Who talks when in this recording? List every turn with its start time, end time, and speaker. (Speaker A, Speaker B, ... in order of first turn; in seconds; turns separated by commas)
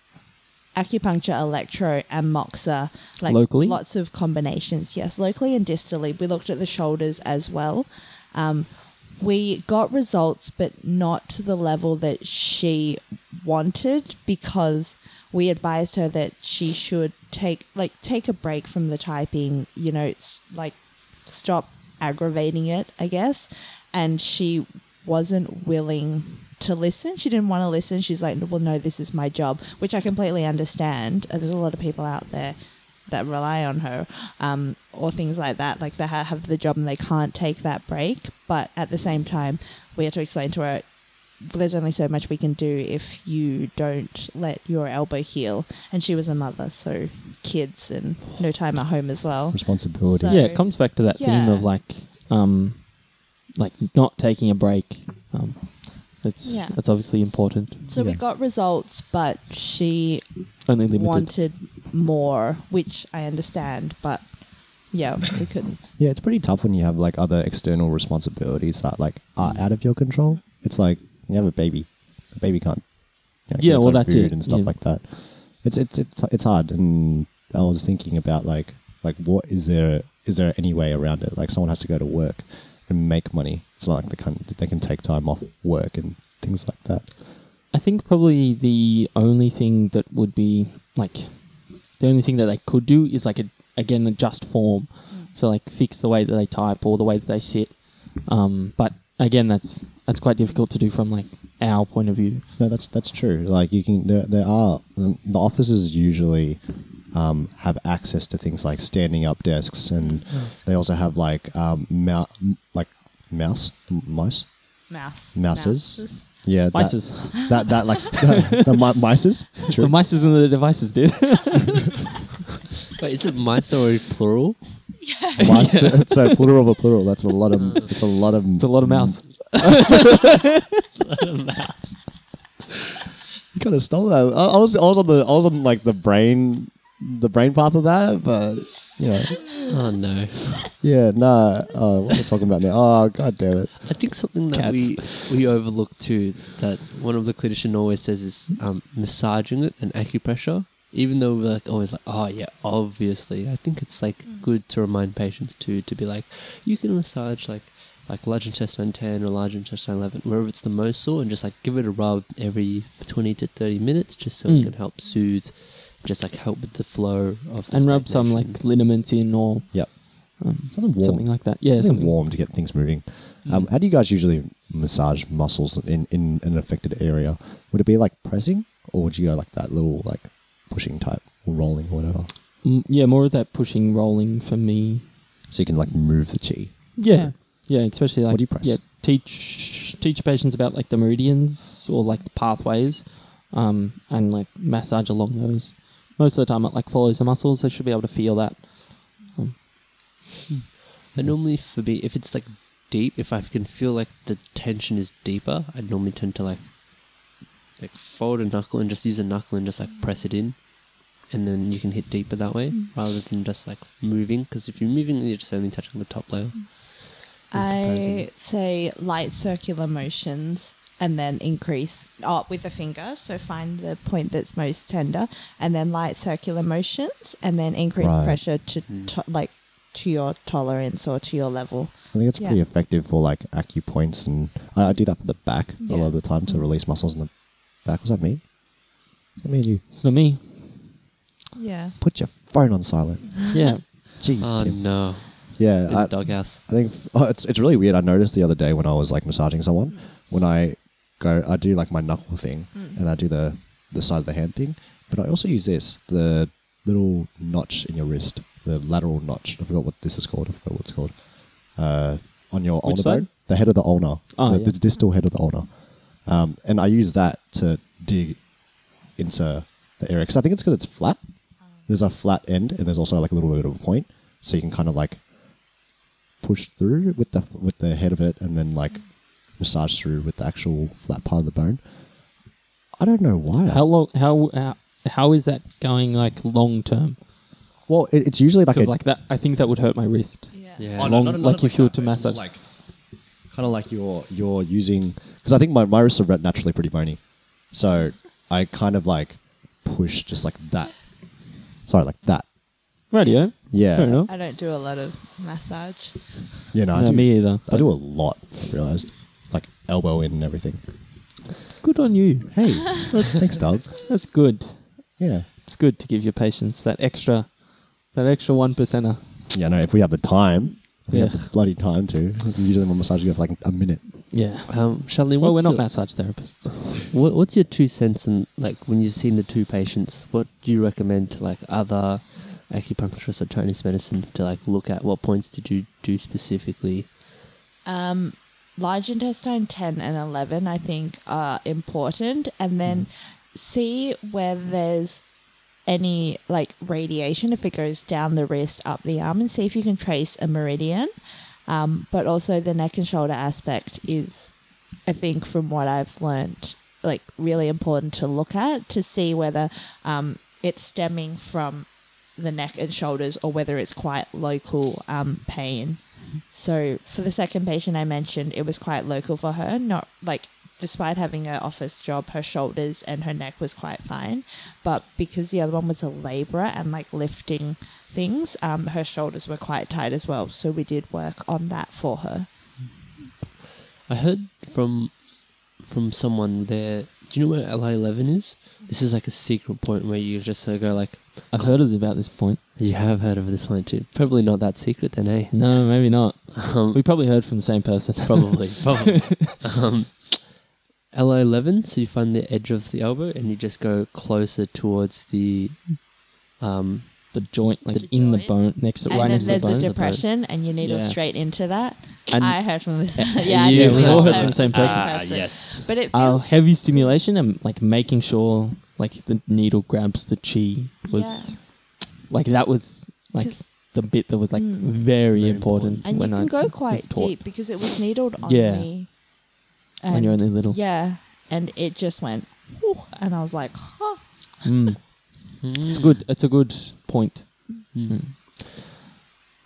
Speaker A: 0.7-51.7, Speaker B: 3.3-3.8, Speaker C: 49.5-50.6, Speaker B: 50.2-57.8, Speaker A: 56.4-65.8, Speaker C: 57.9-58.2, Speaker B: 60.6-61.3, Speaker C: 65.9-87.2, Speaker B: 73.5-74.7, Speaker B: 87.7-102.5, Speaker C: 102.6-120.0, Speaker D: 110.3-110.6, Speaker A: 114.9-116.3, Speaker B: 116.7-118.6, Speaker B: 119.7-121.9, Speaker D: 123.0-124.9, Speaker A: 125.0-125.8, Speaker C: 125.4-129.9, Speaker B: 125.4-126.2, Speaker D: 127.5-127.9, Speaker B: 128.6-130.3, Speaker D: 131.0-132.0, Speaker C: 133.5-139.7, Speaker D: 139.7-140.6, Speaker C: 140.8-145.0, Speaker D: 143.8-168.6, Speaker B: 164.4-164.7, Speaker B: 167.7-172.2, Speaker C: 169.7-182.3, Speaker B: 182.6-185.3, Speaker C: 185.5-187.6, Speaker B: 186.9-200.2, Speaker C: 188.3-188.8, Speaker D: 201.1-218.3, Speaker A: 217.5-232.6, Speaker C: 228.0-228.4, Speaker D: 228.9-229.1, Speaker C: 232.1-239.9, Speaker A: 235.8-236.7, Speaker B: 239.9-240.9, Speaker A: 241.5-242.0, Speaker C: 242.0-275.8, Speaker B: 243.5-243.8, Speaker D: 244.4-246.6, Speaker A: 252.7-253.0, Speaker B: 262.8-263.7, Speaker B: 264.3-264.8, Speaker C: 276.4-282.0, Speaker C: 282.9-283.9, Speaker B: 283.7-287.2, Speaker C: 287.9-288.9, Speaker B: 288.7-292.4, Speaker A: 290.5-290.9, Speaker D: 290.8-291.2, Speaker C: 290.9-302.7, Speaker B: 303.1-304.3, Speaker A: 303.2-303.5, Speaker C: 303.7-304.3, Speaker A: 304.3-306.7, Speaker C: 306.7-310.9, Speaker B: 306.9-308.0, Speaker B: 311.8-312.8, Speaker C: 312.5-314.1, Speaker B: 314.1-319.2, Speaker C: 315.2-315.5, Speaker C: 319.5-324.3, Speaker B: 321.1-321.5, Speaker B: 324.3-327.0, Speaker D: 324.7-326.4, Speaker D: 327.0-337.1, Speaker A: 337.8-351.1, Speaker A: 351.7-382.5, Speaker D: 384.1-395.9, Speaker B: 391.5-392.6, Speaker B: 395.5-399.5, Speaker D: 396.5-397.5, Speaker D: 398.2-407.3, Speaker B: 407.3-411.2, Speaker A: 407.9-417.2, Speaker D: 409.0-410.2, Speaker B: 412.3-415.4, Speaker D: 413.5-415.9, Speaker B: 416.1-427.9, Speaker A: 421.1-421.6, Speaker A: 423.4-423.9, Speaker A: 424.5-424.9, Speaker D: 425.3-426.0, Speaker A: 426.0-429.2, Speaker B: 428.4-429.1, Speaker A: 430.0-434.6, Speaker B: 430.1-430.8, Speaker B: 434.6-438.4, Speaker D: 435.6-436.2, Speaker D: 437.9-438.4